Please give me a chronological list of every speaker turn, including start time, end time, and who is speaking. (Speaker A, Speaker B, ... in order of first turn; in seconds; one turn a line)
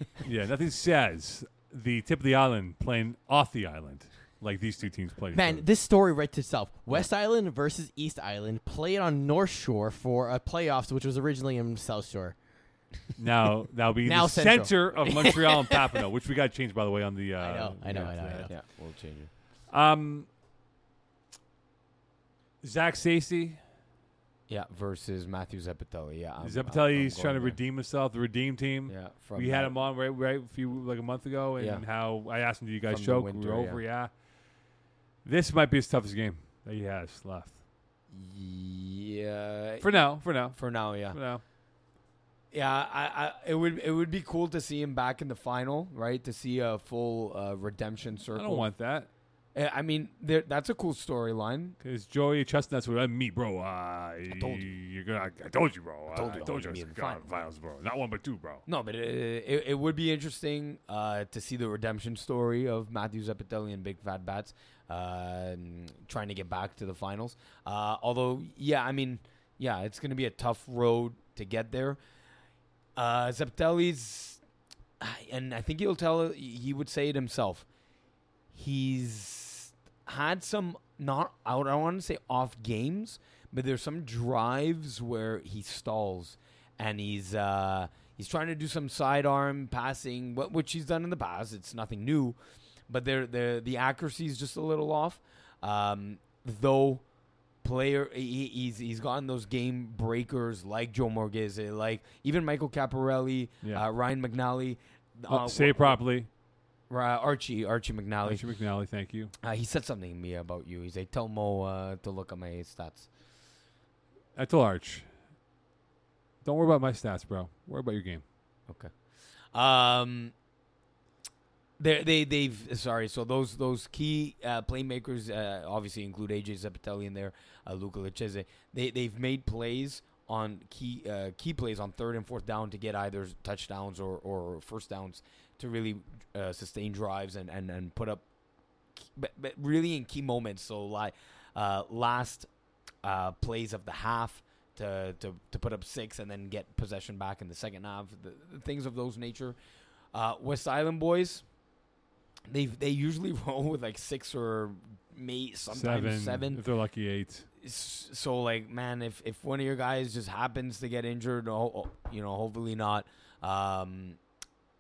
Speaker A: 0.2-5.6
Speaker B: 5.3-12.4
Speaker A: 13.2-18.6
Speaker B: 14.0-15.8
Speaker B: 17.4-18.5
Speaker C: 18.5-19.3
Speaker A: 19.7-20.3
Speaker A: 22.6-23.6
Speaker C: 24.5-27.6
Speaker A: 26.4-34.1
Speaker C: 28.9-29.7
Speaker C: 31.6-31.8
Speaker C: 32.9-33.8
Speaker A: 35.2-37.6
Speaker C: 38.1-41.2
Speaker A: 39.8-41.4
Speaker C: 42.5-48.7
Speaker A: 48.3-49.1
Speaker C: 49.5-51.8
Speaker A: 51.8-58.6
Speaker C: 54.3-54.7
Speaker C: 56.1-57.3
Speaker C: 58.6-72.0
Speaker C: 72.9-74.4
Speaker C: 75.0-77.7
Speaker C: 78.5-92.4
Speaker C: 92.9-97.0
Speaker C: 97.6-106.0
Speaker A: 105.3-106.3
Speaker C: 106.9-108.4
Speaker A: 108.2-109.3
Speaker C: 109.4-113.1
Speaker A: 114.3-115.1
Speaker A: 116.4-118.2
Speaker C: 118.7-118.9
Speaker C: 119.5-120.3
Speaker C: 121.8-138.2
Speaker C: 139.0-142.5
Speaker C: 143.0-149.6
Speaker C: 150.1-151.4
Speaker C: 152.5-156.6
Speaker A: 155.7-157.5
Speaker C: 157.6-164.2